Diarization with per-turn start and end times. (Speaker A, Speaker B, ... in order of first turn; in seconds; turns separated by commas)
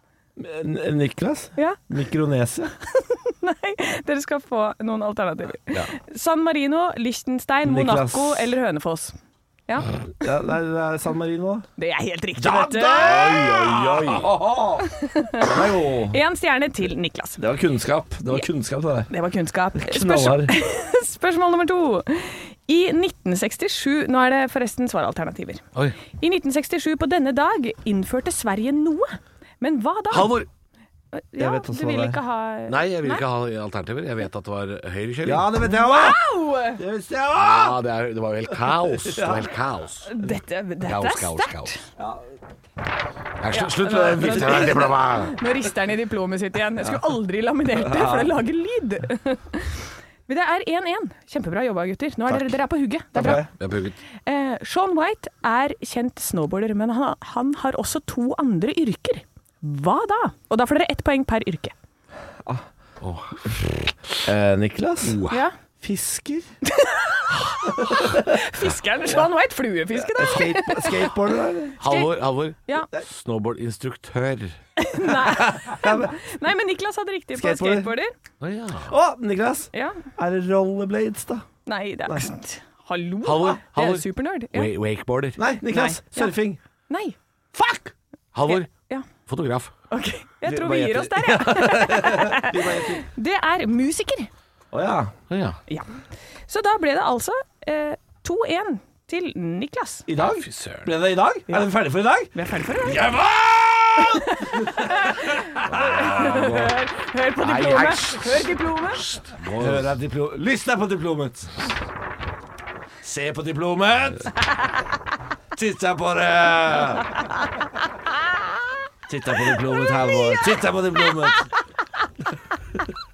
Speaker A: 0.4-2.7, Speaker B: 2.9-9.1, Speaker A: 7.6-8.5, Speaker A: 10.2-11.7, Speaker B: 11.8-13.6, Speaker A: 12.4-14.9, Speaker C: 12.9-14.3, Speaker B: 14.8-15.5, Speaker A: 15.4-16.2, Speaker B: 16.1-17.4, Speaker A: 17.4-19.1, Speaker B: 19.1-25.6, Speaker A: 19.8-20.5, Speaker B: 26.2-30.4, Speaker C: 30.1-30.5, Speaker B: 31.1-33.2, Speaker A: 31.4-32.2, Speaker C: 32.7-35.5, Speaker A: 35.2-36.2, Speaker B: 35.6-36.8, Speaker A: 36.8-37.8, Speaker C: 37.3-40.2, Speaker A: 38.7-39.5, Speaker B: 40.0-41.8, Speaker C: 40.8-41.7, Speaker C: 43.4-45.4, Speaker B: 43.5-53.4, Speaker A: 47.7-48.3, Speaker A: 53.1-53.5, Speaker C: 53.2-54.0, Speaker B: 54.2-61.7, Speaker C: 63.0-63.9, Speaker A: 64.2-65.2, Speaker C: 65.0-65.4, Speaker A: 65.8-66.5, Speaker B: 66.6-71.1, Speaker A: 67.9-68.2, Speaker A: 70.1-71.8, Speaker B: 71.8-72.1, Speaker C: 71.8-74.6, Speaker B: 74.8-78.1, Speaker A: 75.2-76.2, Speaker A: 77.3-77.9, Speaker C: 78.4-78.9, Speaker A: 78.9-81.5, Speaker B: 79.7-80.0, Speaker B: 81.7-84.7, Speaker C: 83.2-85.4, Speaker A: 85.4-86.6, Speaker B: 85.6-86.3, Speaker B: 86.9-87.2, Speaker A: 87.5-87.9, Speaker C: 88.3-88.7, Speaker B: 88.5-89.0, Speaker C: 89.2-89.7, Speaker B: 89.9-94.3, Speaker A: 90.4-93.0, Speaker A: 94.7-95.1, Speaker C: 95.3-95.6, Speaker B: 96.5-100.1, Speaker A: 100.1-106.5, Speaker C: 100.2-100.9, Speaker B: 102.3-103.0, Speaker B: 104.0-109.0, Speaker C: 105.7-106.7, Speaker C: 107.4-109.9, Speaker A: 109.6-111.5, Speaker A: 113.0-114.3, Speaker A: 115.5-117.1, Speaker A: 119.1-121.5